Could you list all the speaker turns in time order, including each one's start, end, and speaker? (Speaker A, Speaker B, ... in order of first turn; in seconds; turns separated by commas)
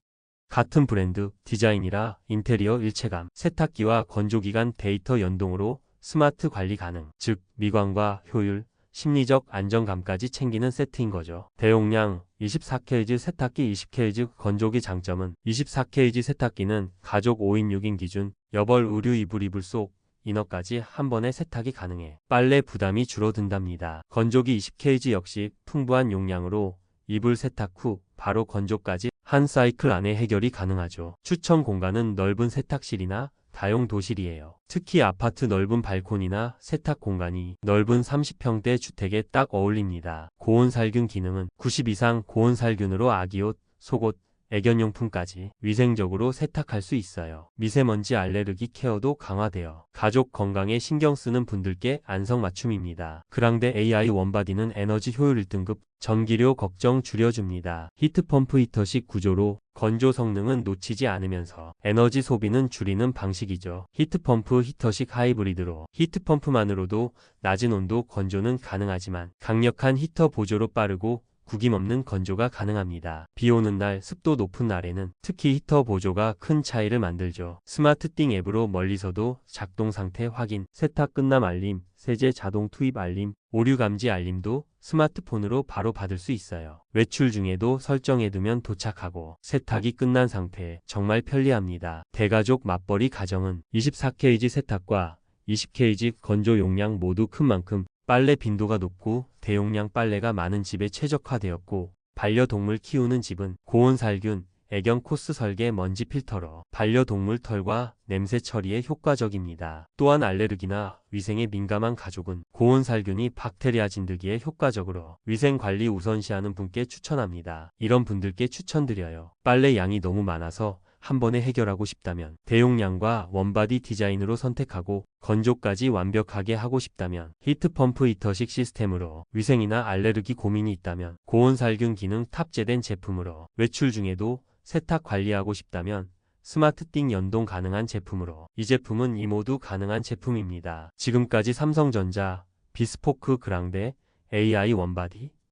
Speaker A: 0.5-145.3